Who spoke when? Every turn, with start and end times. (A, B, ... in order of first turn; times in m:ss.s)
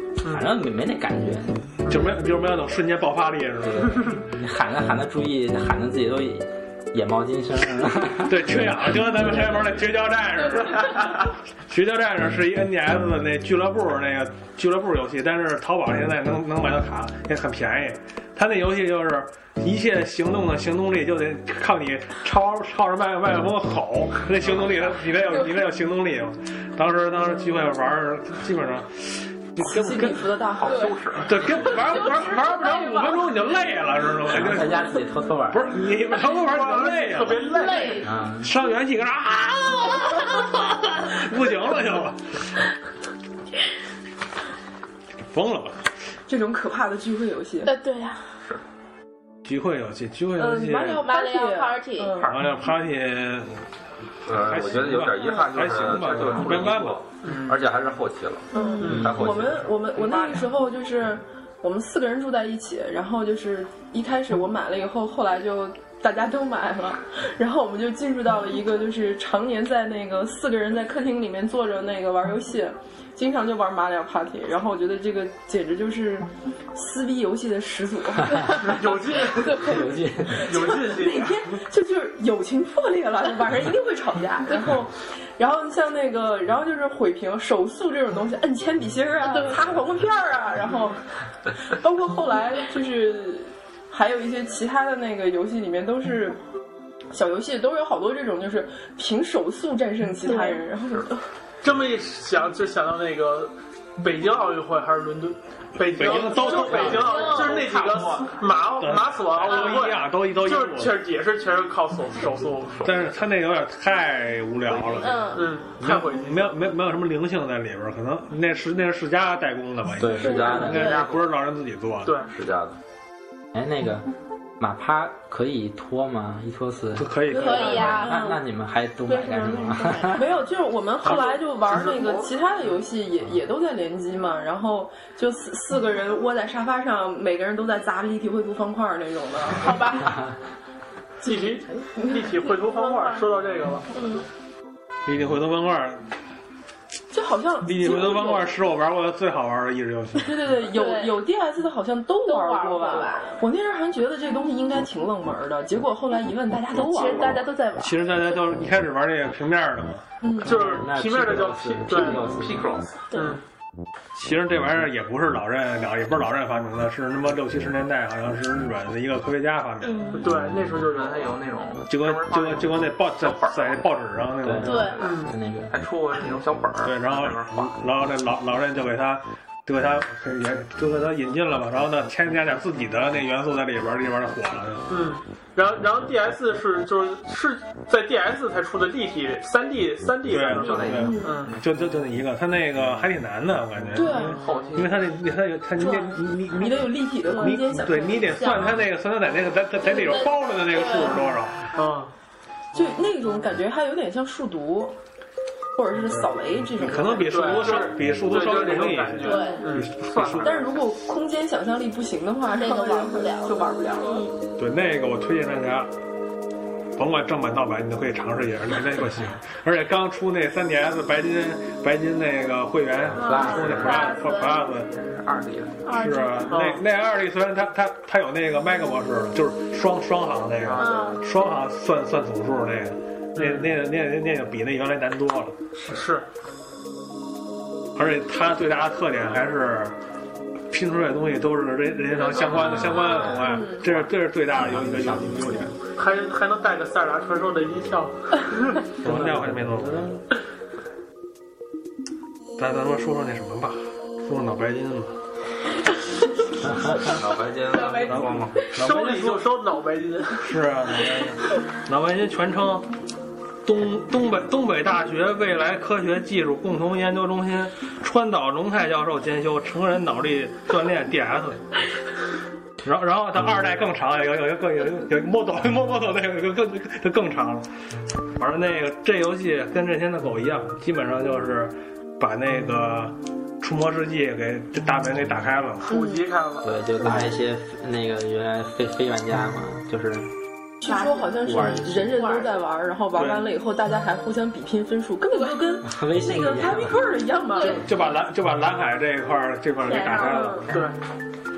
0:00.2-0:00.5 A
0:00.2-0:01.6 B
0:01.8-0:04.2 C
0:03.6-0:09.7 B
0:08.2-0:30.3 C
0:29.6-0:31.0 D
0:30.6-0:31.5 E
0:30.6-0:31.0 F
0:31.2-0:35.0 C
0:31.7-0:33.2 F
0:34.2-0:35.7 B
0:35.5-0:37.5 C
0:36.3-0:38.0 A
0:37.4-0:38.1 F
0:38.0-0:38.5 B
0:38.4-0:40.3 C
0:40.0-0:40.4 F
0:41.0-0:42.4 C
0:45.3-0:45.8 C
0:46.3-0:47.7 D
0:47.6-0:48.2 F
0:49.4-0:51.1 C
0:50.4-0:52.4 D
0:50.9-0:52.3 F
0:52.2-0:53.6 C
0:54.2-0:57.0 C
0:54.2-0:59.7 G
0:57.2-0:57.5 A
0:57.2-0:57.6 E
0:58.5-0:58.9 F
0:58.5-1:19.6 D
0:58.8-0:59.1 A
1:00.0-1:00.3 E
1:18.6-1:19.6 A
1:19.5-1:20.5 B
1:20.4-1:21.4 A
1:20.4-1:31.0 D
1:29.2-1:29.7 F
1:31.6-1:36.4 D
1:37.1-1:41.1 D
1:40.2-1:40.6 F
1:41.6-1:52.9 A
1:45.8-1:47.1 C
1:46.0-1:48.4 E
1:46.8-1:47.6 F
1:48.8-1:51.0 C
1:52.8-1:55.2 C
1:54.9-1:55.5 F
1:55.3-1:56.5 A
1:55.8-2:02.1 C
2:00.0-2:00.8 B
2:00.2-2:01.2 G
2:00.2-2:00.9 F
2:02.0-2:02.3 A
2:02.3-2:02.8 G
2:03.5-2:04.0 B
2:04.6-2:10.2 B
2:07.0-2:08.0 C
2:07.3-2:08.4 F
2:07.4-2:08.3 D
2:09.0-2:10.3 F
2:10.1-2:20.0 D
2:19.5-2:20.2 F
2:21.2-2:22.2 D
2:21.2-2:23.9 A
2:22.7-2:23.2 F
2:23.9-2:24.2 F
2:25.0-2:26.1 C
2:27.1-2:28.5 D
2:27.6-2:30.3 C
2:30.2-2:37.5 D
2:30.7-2:31.2 F
2:32.2-2:33.4 F
2:36.7-2:38.2 F
2:37.8-2:40.0 C
2:40.2-2:40.6 D
2:40.4-2:42.2 A
2:40.4-2:42.7 B
2:41.9-2:43.0 E
2:43.1-2:43.4 F
2:43.1-2:43.4 A
2:44.1-2:50.2 C
2:49.8-2:50.2 F
2:50.1-2:51.4 A
2:50.7-2:53.9 E
2:51.8-2:54.9 C
2:54.4-2:55.8 B
2:54.6-2:55.0 F
2:55.0-2:55.3 A
2:55.7-2:57.7 E
2:56.8-3:04.8 C
3:04.9-3:11.5 A
3:10.2-3:21.7 C
3:10.6-3:11.6 E
3:10.9-3:11.2 F
3:11.0-3:11.3 D
3:13.9-3:14.4 D
3:14.1-3:15.1 E
3:15.8-3:18.5 D
3:17.3-3:17.6 F
3:18.3-3:18.8 F
3:19.8-3:21.2 F
3:21.7-3:22.1 A
3:22.7-3:25.0 D
3:25.8-3:27.9 D
3:26.8-3:30.7 C
3:27.3-3:30.4 A
3:29.2-3:29.7 F
3:30.3-3:34.3 D
3:32.5-3:34.4 F
3:34.6-3:35.9 C
3:37.0-3:44.9 C
3:43.1-3:44.1 B
3:43.2-3:44.6 F
3:44.7-3:45.9 E
3:45.8-3:46.5 F
3:45.9-3:55.6 C
3:46.5-3:46.8 A
3:50.7-3:51.2 E
3:50.7-3:51.2 F
3:53.3-3:53.7 A
3:55.8-3:56.3 A
3:57.9-4:00.0 C
4:00.7-4:05.7 C
4:03.3-4:03.8 D
4:04.5-4:05.7 B
4:06.0-4:08.8 A
4:09.0-4:10.2 C
4:09.0-4:10.2 B
4:12.6-4:15.2 C
4:16.7-4:17.0 B
4:16.9-4:18.6 G
4:16.9-4:18.7 F
4:18.0-4:19.5 C
4:18.7-4:20.4 A
4:20.4-4:22.9 C
4:23.6-4:31.6 C
4:32.8-4:37.7 C
4:38.4-4:45.9 C
4:45.9-4:46.7 A
4:46.6-4:50.3 B
4:50.8-4:57.8 D
4:50.8-4:52.6 F
4:51.4-4:52.1 B
4:53.1-4:53.5 C
4:55.3-4:55.6 F
4:55.8-4:57.0 B
4:57.5-4:57.9 F
4:57.8-5:00.7 C
4:59.8-5:00.7 F
5:00.2-5:00.6 D
5:00.7-5:00.9 A